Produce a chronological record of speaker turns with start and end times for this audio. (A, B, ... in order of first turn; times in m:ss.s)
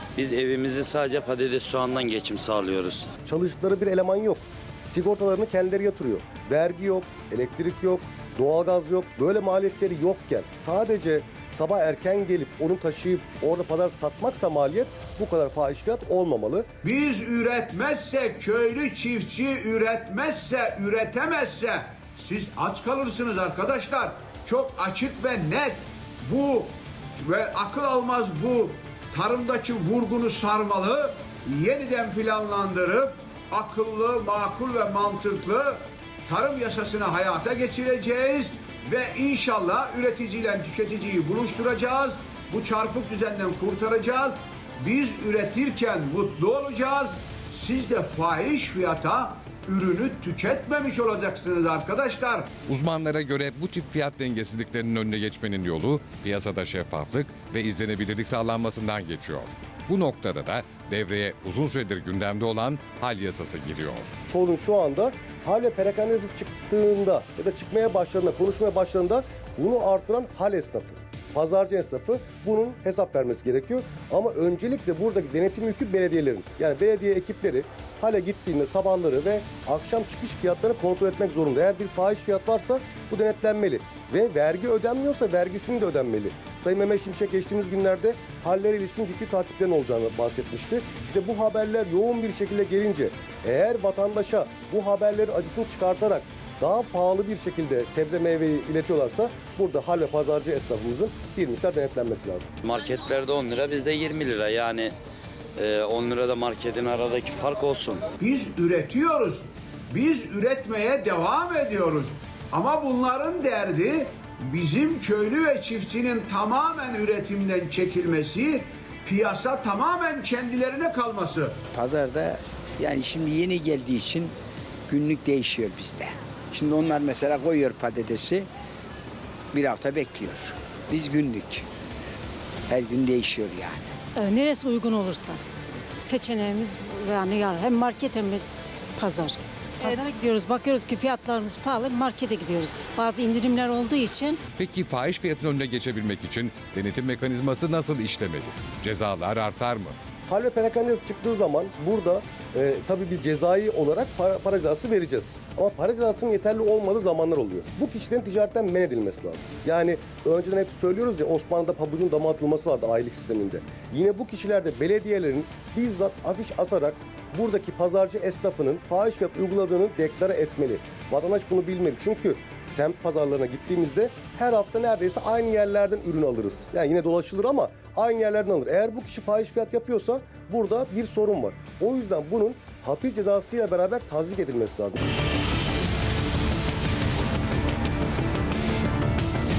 0:00.2-0:03.1 A
0:03.2-0:16.7 B
0:16.8-0:52.5 C
0:52.6-1:04.1 D
1:04.3-1:42.5 B
1:42.6-1:44.9 A
1:45.6-1:48.1 A
1:48.2-2:01.6 C
2:01.7-2:04.3 E
2:04.9-2:08.5 E
2:09.5-2:11.6 E
2:12.7-2:13.9 E
2:14.1-2:15.4 F
2:16.0-2:18.4 F
2:19.0-2:24.4 F
2:24.6-2:29.9 D
2:30.3-3:05.0 B